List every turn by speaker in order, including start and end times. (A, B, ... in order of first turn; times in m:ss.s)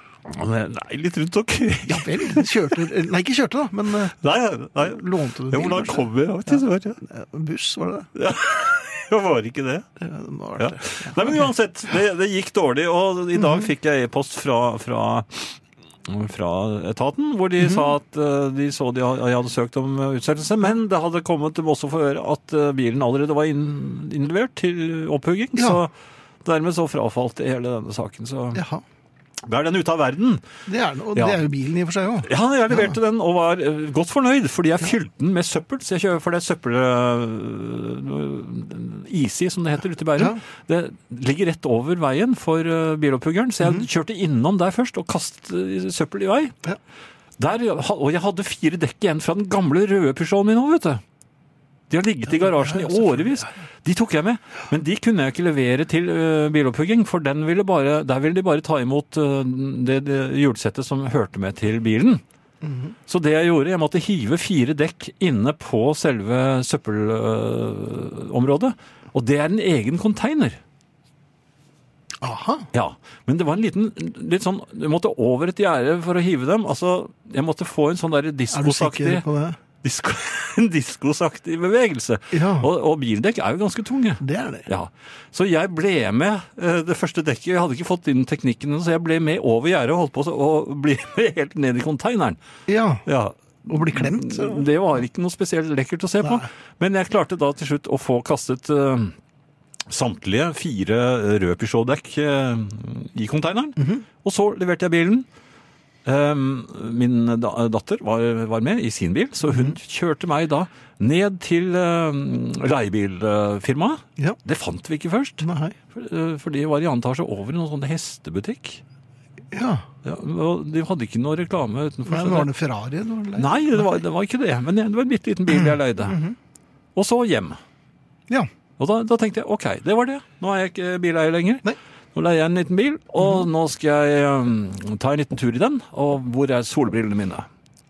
0:00.2-0:02.8 A
0:01.8-0:04.1 B
0:04.2-0:07.0 A
0:04.8-0:08.1 B
0:08.2-0:09.8 A
0:10.0-0:11.5 B
0:10.6-0:25.9 A
0:13.4-0:13.7 B
0:17.6-0:17.8 B
0:25.6-0:25.8 B
0:26.4-0:28.6 A
0:28.5-0:28.8 B
0:29.5-0:30.4 A
0:30.7-0:33.0 B
0:31.1-0:31.4 A
0:32.2-0:46.5 A
0:47.4-0:51.0 A
0:51.9-1:02.2 A
0:52.3-0:53.5 B
1:02.6-1:02.9 B
1:03.1-1:10.6 A
1:12.2-1:12.7 B
1:12.7-1:19.2 A
1:18.5-1:19.6 B
1:19.8-1:32.4 A
1:22.3-1:22.7 B
1:24.2-1:24.7 B
1:32.7-1:33.0 B
1:33.0-1:39.1 A
1:33.7-1:34.7 B
1:39.9-1:45.2 A
1:43.8-1:44.0 B
1:46.0-1:58.8 A
1:49.5-1:49.7 B
1:55.4-1:55.8 B
1:59.5-1:59.9 B
2:00.0-2:02.5 A
2:02.0-2:04.0 B
2:03.4-2:06.2 A
2:05.5-2:06.4 B
2:07.0-2:07.6 A
2:08.8-2:17.5 A